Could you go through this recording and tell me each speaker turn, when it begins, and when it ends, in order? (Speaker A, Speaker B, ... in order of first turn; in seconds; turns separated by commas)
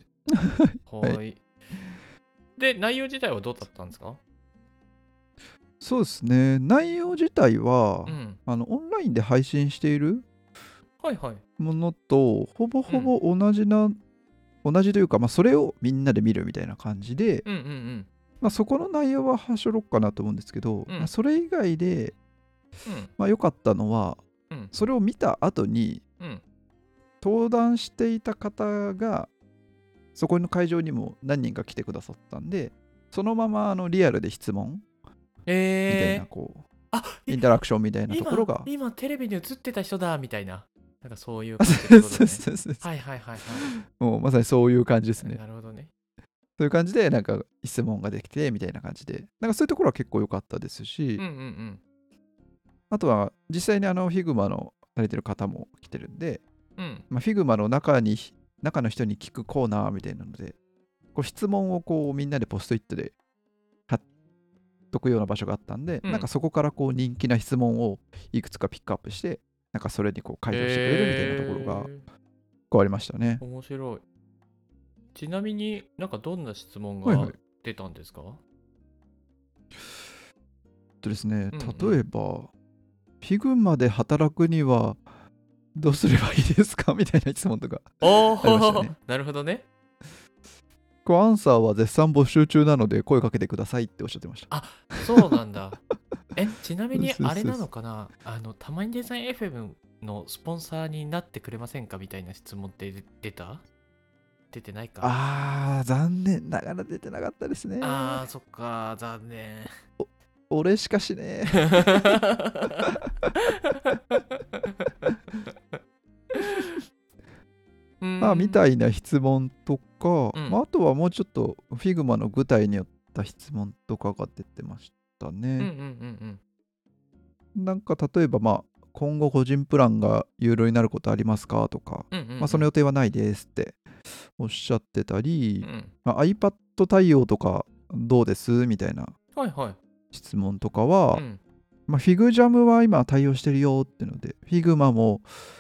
Speaker A: 0.4-1.2, Speaker B: 0.8-1.4, Speaker B: 2.6-4.2, Speaker A: 5.8-10.2, Speaker B: 8.1-8.4, Speaker B: 11.0-11.4, Speaker A: 11.6-14.0, Speaker B: 12.9-13.1, Speaker A: 14.6-17.4, Speaker B: 17.4-18.1, Speaker A: 18.4-22.1, Speaker B: 22.9-23.1, Speaker A: 23.2-24.2, Speaker A: 24.7-26.0, Speaker A: 27.2-29.3, Speaker A: 30.1-34.8, Speaker B: 35.5-36.3, Speaker A: 35.9-36.7, Speaker B: 36.9-37.5, Speaker A: 37.3-38.7, Speaker B: 38.1-43.7, Speaker A: 41.6-42.9, Speaker A: 43.6-45.4, Speaker B: 45.2-45.9, Speaker A: 46.6-51.2, Speaker B: 51.2-51.8, Speaker A: 52.9-56.4, Speaker B: 56.8-57.0, Speaker A: 57.1-60.6, Speaker A: 61.1-63.1, Speaker A: 64.9-71.9, Speaker B: 70.5-72.0, Speaker A: 72.7-73.4, Speaker B: 73.4-74.0, Speaker B: 75.1-78.4, Speaker A: 77.0-77.3, Speaker A: 81.0-82.5, Speaker B: 81.5-82.0, Speaker A: 83.2-85.0, Speaker A: 85.8-88.9, Speaker B: 88.0-89.7, Speaker A: 91.0-95.1, Speaker B: 94.5-95.8, Speaker B: 96.3-103.6, Speaker A: 96.9-97.6, Speaker B: 104.5-105.2, Speaker A: 105.0-108.2, Speaker B: 107.8-109.7, Speaker A: 110.0-112.2, Speaker B: 111.7-113.0, Speaker B: 113.5-114.2, Speaker B: 116.4-116.6, Speaker B: 118.0-118.6, Speaker A: 118.2-125.7, Speaker B: 120.3-120.6, Speaker B: 125.6-126.4, Speaker A: 127.5-133.8, Speaker B: 132.1-132.7, Speaker A: 134.4-139.1, Speaker B: 135.6-135.9, Speaker B: 139.3-139.8, Speaker A: 140.1-141.2, Speaker B: 141.1-141.4, Speaker A: 141.9-145.3